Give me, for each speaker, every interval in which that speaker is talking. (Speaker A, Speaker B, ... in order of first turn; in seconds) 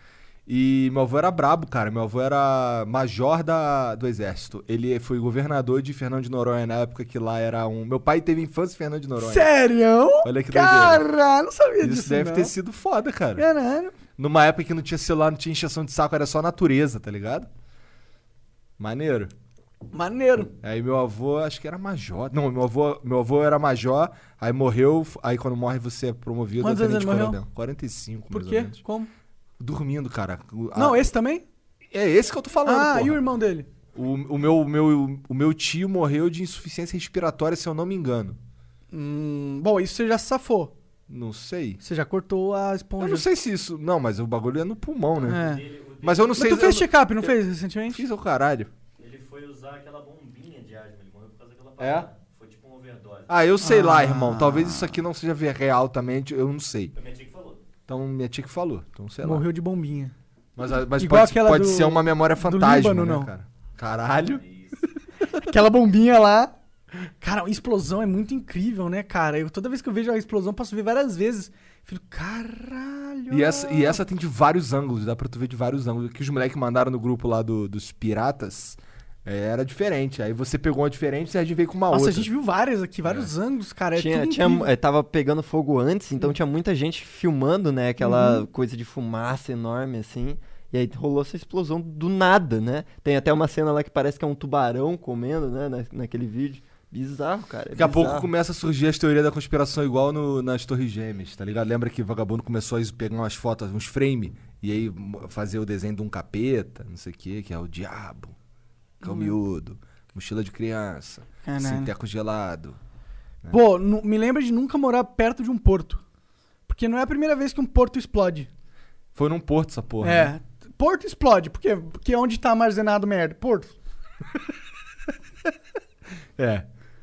Speaker A: 0.5-9.5, 10.2-11.0, 11.8-13.4, 14.2-17.5, 18.8-19.3, 20.6-28.8, 29.6-31.0, 31.9-33.2, 33.9-38.4, 41.1-41.8, 43.0-45.4, 46.0-47.3, 47.9-48.7, 51.8-52.1, 53.3-56.9, 57.9-59.4, 60.5-64.4, 73.3-82.3, 97.8-108.3, 109.0-112.8, 119.1-120.3, 126.4-126.7
Speaker B: 9.2-12.5, 13.4-13.9, 19.9-20.5, 26.6-27.4, 28.3-29.1, 30.7-31.4, 32.6-33.7, 38.9-40.7, 41.8-43.3, 45.2-45.6, 46.3-48.0, 53.6-55.0, 59.2-60.1, 61.0-63.3, 65.4-66.5, 67.2-74.0, 81.9-84.7, 88.0-88.4, 109.0-109.3, 111.4-111.9, 113.5-116.0, 116.7-118.5, 120.0-123.7
Speaker C: 45.3-46.5, 49.0-53.4, 57.0-57.6, 64.2-65.2
Speaker D: 84.0-98.3